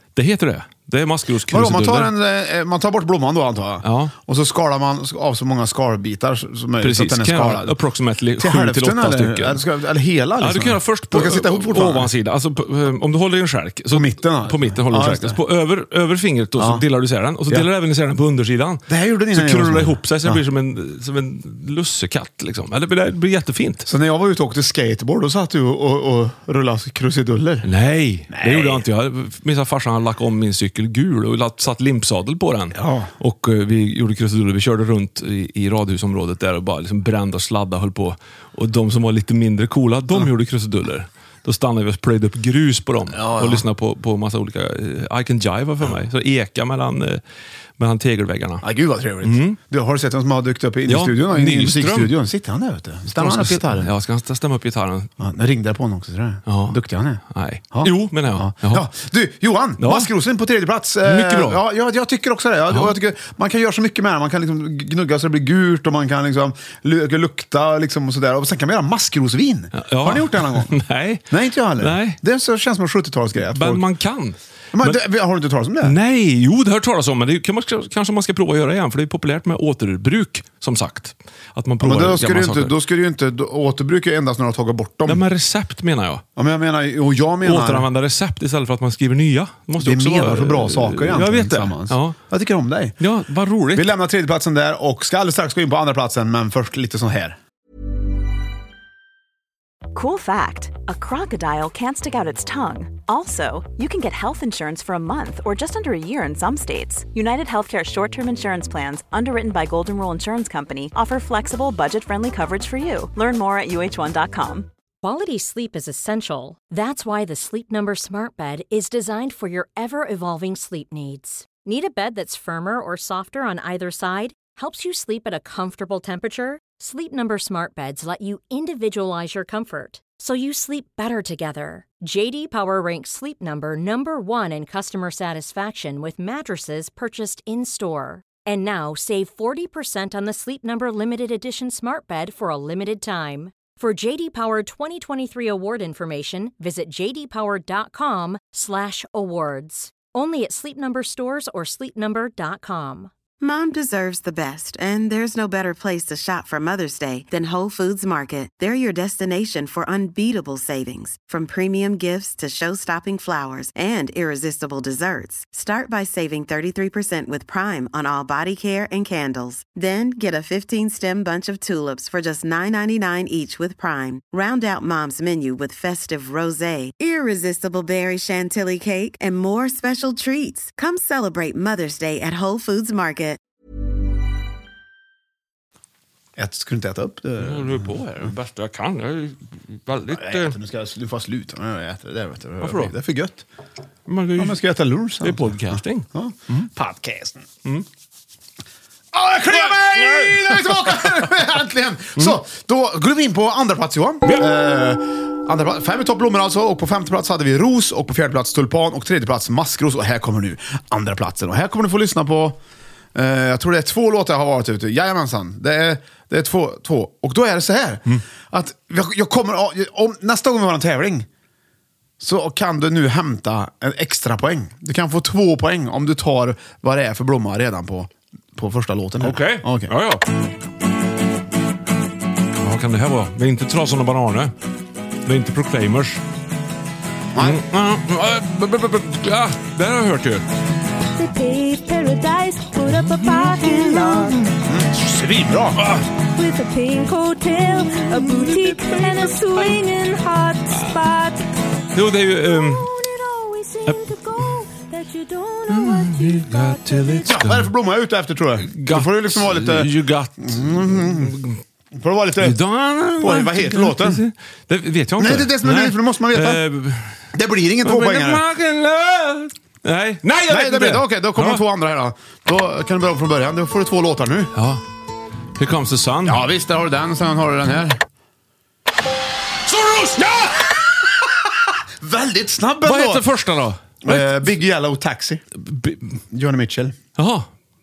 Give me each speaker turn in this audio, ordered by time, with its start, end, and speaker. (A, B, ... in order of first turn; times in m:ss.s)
0:00.2-0:02.1 A
0:01.5-0:07.8 B
0:03.8-0:04.1 A
0:06.8-0:09.6 A
0:08.4-0:12.1 B
0:10.4-0:23.9 A
0:13.9-0:15.4 B
0:16.6-0:16.8 B
0:18.9-0:20.4 B
0:23.8-0:27.7 B
0:27.6-0:47.2 A
0:28.3-0:28.8 B
0:32.7-0:33.1 B
0:43.1-0:43.6 B
0:47.8-0:48.7 A
0:48.6-0:53.9 B
0:49.2-0:49.6 A
0:50.9-0:52.1 A
0:53.1-0:55.1 A
0:55.2-0:57.2 B
0:56.5-0:56.8 A
0:57.3-0:58.9 A
0:57.7-1:10.7 B
0:59.8-1:00.1 A
1:01.0-1:01.6 A
1:09.8-1:11.2 A
1:11.3-1:13.8 B
1:11.8-1:12.2 A
1:13.5-1:15.0 A
1:14.7-1:16.0 B
1:15.8-1:22.8 A
1:21.8-1:25.2 B
1:25.0-1:26.2 A
1:26.4-1:27.9 B
1:27.4-1:32.2 A
1:29.8-1:33.0 B
1:33.0-1:33.9 A
1:33.7-1:37.4 B
1:39.9-1:54.7 C
1:55.0-2:33.1 D
2:33.4-3:03.4 E
3:06.4-3:08.3 B
3:07.4-3:10.6 A
3:10.1-3:13.4 B
3:12.6-3:12.9 A
3:14.1-3:14.6 A
3:14.4-3:17.4 B
3:15.2-3:16.6 A
3:19.1-3:32.6 B
3:19.5-3:21.2 A
3:33.1-3:41.3 B
3:42.2-3:49.9 B
3:49.2-3:50.2 A
3:52.6-3:54.5 A
3:55.2-3:56.2 A
3:57.3-3:57.6 B
3:57.4-4:00.4 A
4:01.2-4:04.5 F
4:03.2-4:03.6 A
4:04.3-4:05.9 B
4:05.8-4:06.0 A
4:06.3-4:11.4 F
4:11.9-4:12.9 A
4:12.3-4:17.3 F
4:13.8-4:14.5 A
4:15.7-4:17.7 A
4:17.2-4:21.4 B
4:18.6-4:21.6 A
4:21.9-4:22.6 B
4:22.4-4:27.1 A
4:23.2-4:24.2 B
4:25.2-4:26.6 B
4:27.3-4:28.4 B
4:27.8-4:31.6 A
4:30.5-4:34.5 B
4:34.5-4:34.8 A
4:35.6-4:36.4 A
4:36.2-4:38.0 B
4:39.7-4:40.7 A
4:42.0-4:43.2 B
4:42.8-4:44.5 A
4:44.0-4:45.4 B
4:45.6-4:46.1 A
4:46.3-4:47.0 B
4:47.2-4:47.5 A